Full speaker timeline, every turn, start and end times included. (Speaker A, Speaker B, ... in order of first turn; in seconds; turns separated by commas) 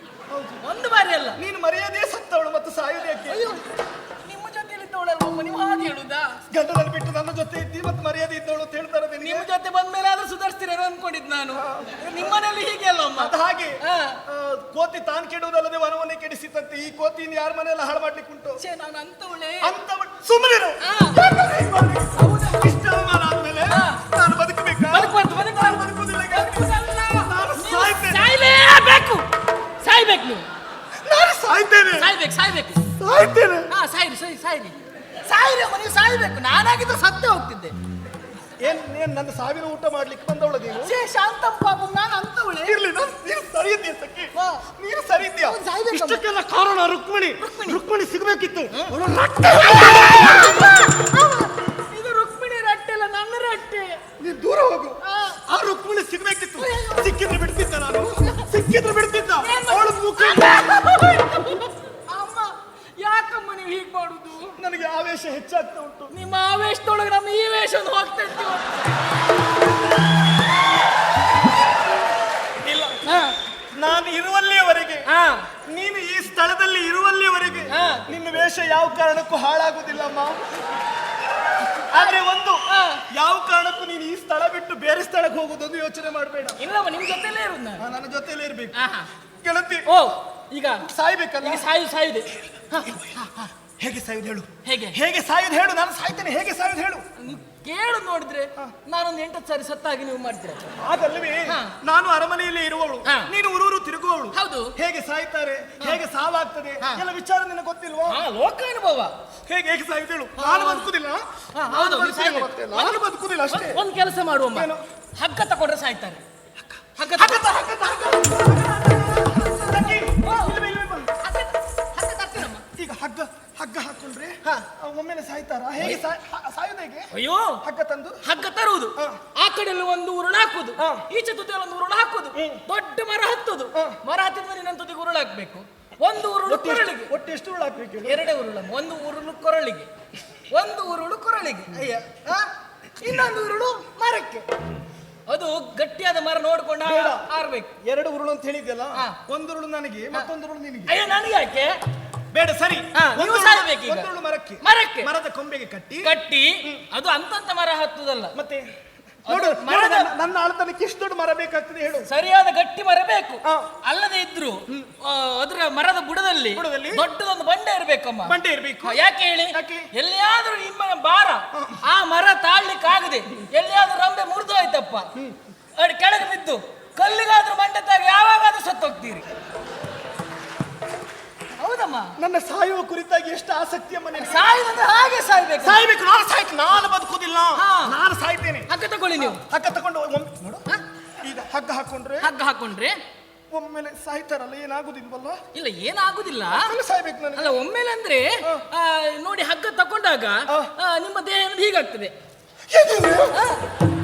Speaker A: 0.3-0.6, Speaker B: 0.6-1.4, Speaker A: 1.4-3.4, Speaker B: 3.3-3.6, Speaker B: 4.2-6.3, Speaker A: 6.5-9.5, Speaker B: 9.2-14.2, Speaker A: 11.6-12.0, Speaker A: 13.2-18.6, Speaker B: 18.6-19.7, Speaker A: 19.6-28.4, Speaker B: 20.8-21.3, Speaker B: 22.1-22.7, Speaker B: 23.7-24.0, Speaker B: 24.9-29.3, Speaker B: 29.8-30.5, Speaker A: 31.0-32.1, Speaker B: 32.0-32.8, Speaker A: 33.0-33.7, Speaker B: 33.7-37.8, Speaker A: 38.6-40.9, Speaker B: 40.8-42.8, Speaker A: 42.6-50.9, Speaker B: 44.4-44.6, Speaker B: 45.4-46.2, Speaker B: 47.4-47.8, Speaker B: 49.5-54.0, Speaker A: 54.2-60.6, Speaker B: 55.0-55.4, Speaker B: 56.6-57.1, Speaker B: 59.4-64.6, Speaker A: 64.6-66.1, Speaker B: 66.1-69.0, Speaker A: 72.6-73.0, Speaker B: 73.0-73.4, Speaker A: 73.7-75.1, Speaker B: 75.1-75.5, Speaker A: 75.7-80.5, Speaker B: 77.7-78.1, Speaker A: 81.9-86.6, Speaker B: 82.7-83.0, Speaker B: 86.6-87.9, Speaker A: 87.8-88.8, Speaker B: 88.7-89.1, Speaker A: 89.4-89.9, Speaker B: 89.9-90.9, Speaker A: 90.8-91.6, Speaker B: 91.4-93.5, Speaker A: 92.7-93.3, Speaker A: 93.8-97.0, Speaker B: 94.6-95.0, Speaker B: 97.2-100.7, Speaker A: 100.8-108.2, Speaker B: 101.5-101.7, Speaker B: 103.0-103.3, Speaker B: 104.3-104.7, Speaker B: 108.1-109.1, Speaker A: 109.5-113.8, Speaker B: 110.4-110.9, Speaker B: 111.5-113.0, Speaker B: 113.5-116.2, Speaker A: 114.5-114.8, Speaker A: 116.6-121.1, Speaker B: 117.0-117.5, Speaker B: 119.3-120.6, Speaker B: 121.2-122.6, Speaker A: 122.8-127.1, Speaker B: 125.8-126.0, Speaker B: 127.1-127.6, Speaker A: 127.6-128.2, Speaker B: 128.2-137.1, Speaker A: 132.4-132.6, Speaker A: 136.5-138.3, Speaker B: 138.1-139.9, Speaker B: 140.5-142.5, Speaker B: 143.0-144.5, Speaker B: 145.3-147.7, Speaker A: 146.8-147.3, Speaker A: 147.8-151.0, Speaker B: 150.9-151.8, Speaker A: 152.3-156.1, Speaker B: 152.9-154.1, Speaker B: 154.6-155.1, Speaker B: 156.0-158.3, Speaker A: 158.3-158.7, Speaker B: 159.3-160.1, Speaker A: 159.3-162.1, Speaker B: 162.1-175.1, Speaker A: 166.6-167.0, Speaker A: 168.3-169.0, Speaker A: 169.5-169.9, Speaker A: 171.5-171.8, Speaker B: 175.8-179.2, Speaker B: 181.5-182.1, Speaker A: 182.2-184.5, Speaker B: 184.2-185.8, Speaker A: 185.6-190.6, Speaker B: 187.6-188.0, Speaker B: 188.7-189.4, Speaker A: 191.2-192.3, Speaker B: 192.2-193.0, Speaker A: 193.5-195.4, Speaker B: 195.5-196.7, Speaker A: 196.5-197.6, Speaker B: 197.3-202.1, Speaker A: 202.7-203.4, Speaker B: 203.3-203.6